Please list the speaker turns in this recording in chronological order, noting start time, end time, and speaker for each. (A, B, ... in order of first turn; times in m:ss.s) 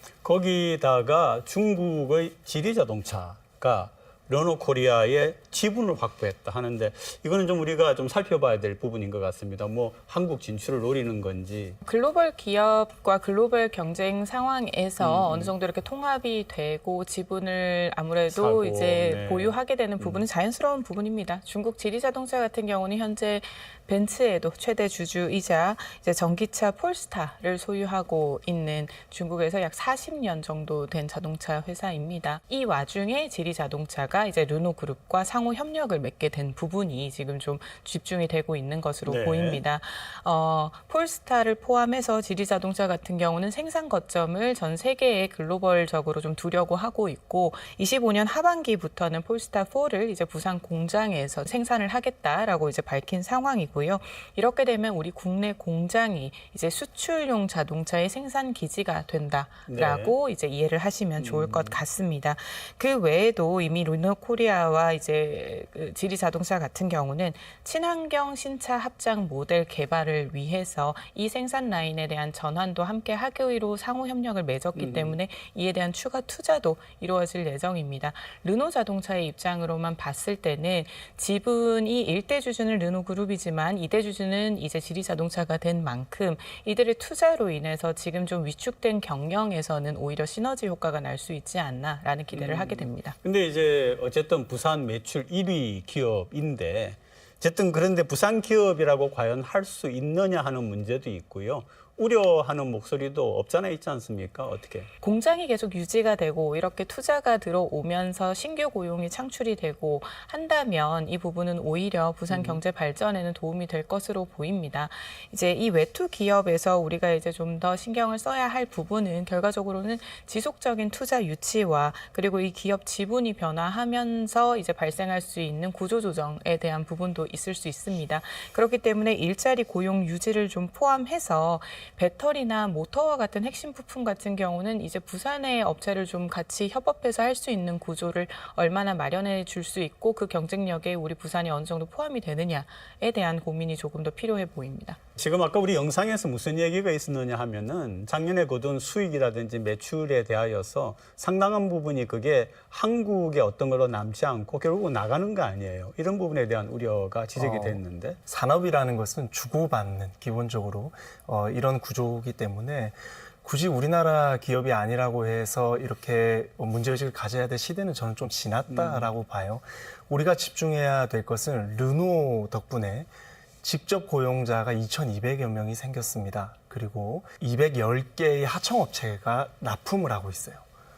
0:00.2-0:11.8 A
0:11.8-1:33.2 B
0:15.0-0:15.5 A
0:18.3-0:20.2 A
0:39.0-0:39.6 A
0:59.7-1:00.1 A
1:01.2-1:01.8 A
1:14.8-1:15.2 A
1:32.3-1:44.9 A
1:45.0-2:25.0 B
1:52.3-1:52.6 A
2:25.2-2:38.2 A
2:37.4-2:53.1 C
2:48.7-2:49.1 A
2:53.6-3:00.6 C